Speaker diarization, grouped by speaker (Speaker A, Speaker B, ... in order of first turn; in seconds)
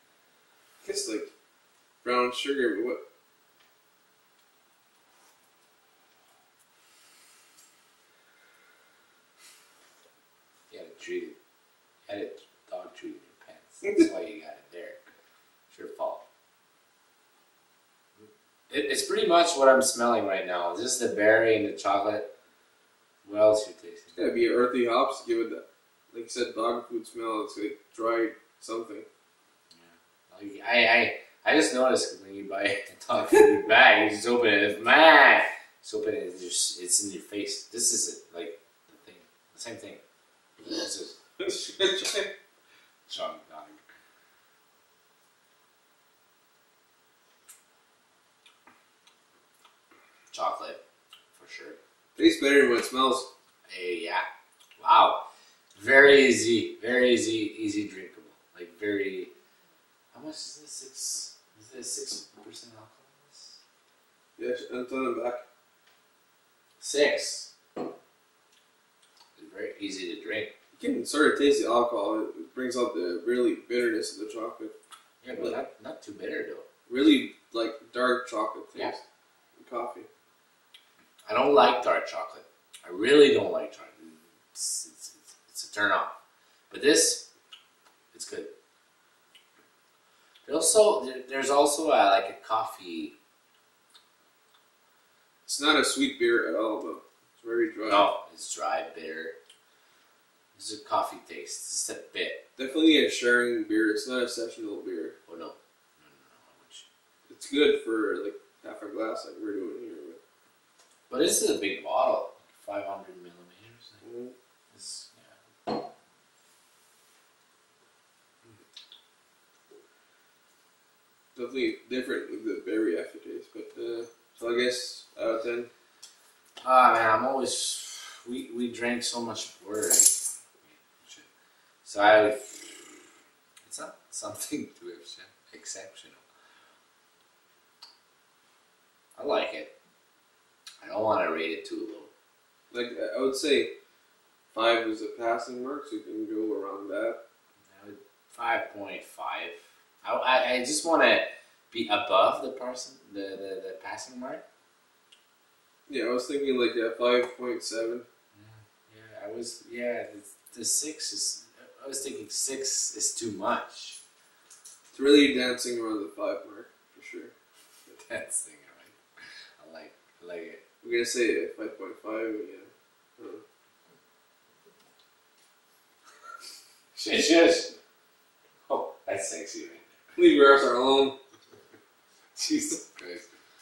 Speaker A: 0.8-1.3, 2.0-3.0, 24.1-29.1, 41.4-42.3, 52.2-53.3, 64.4-65.4, 70.8-74.7, 76.9-79.0, 79.6-80.1, 95.5-98.1, 102.6-105.2, 107.3-110.2, 114.0-114.3, 121.3-125.7, 142.7-143.7, 144.5-147.2, 155.9-158.1, 164.9-167.3, 170.8-173.4, 180.2-181.2
Speaker B: 10.7-11.4, 12.1-15.0, 15.7-16.2, 18.2-22.3, 23.2-24.1, 29.8-40.0, 40.6-41.6, 43.1-43.8, 50.3-50.8, 51.4-51.8, 53.7-54.3, 54.8-55.2, 55.8-59.3, 60.1-63.6, 66.8-67.5, 69.4-70.5, 75.2-76.7, 81.3-86.1, 86.7-87.2, 88.1-88.5, 90.5-93.1, 97.9-99.3, 100.5-102.5, 105.3-106.8, 111.1-114.0, 114.7-115.3, 126.6-131.3, 131.8-133.1, 133.7-136.2, 139.2-139.7, 140.8-142.1, 147.7-154.4, 158.3-164.0, 167.9-168.9, 169.6-170.6, 176.9-177.8, 178.7-179.8, 182.4-183.3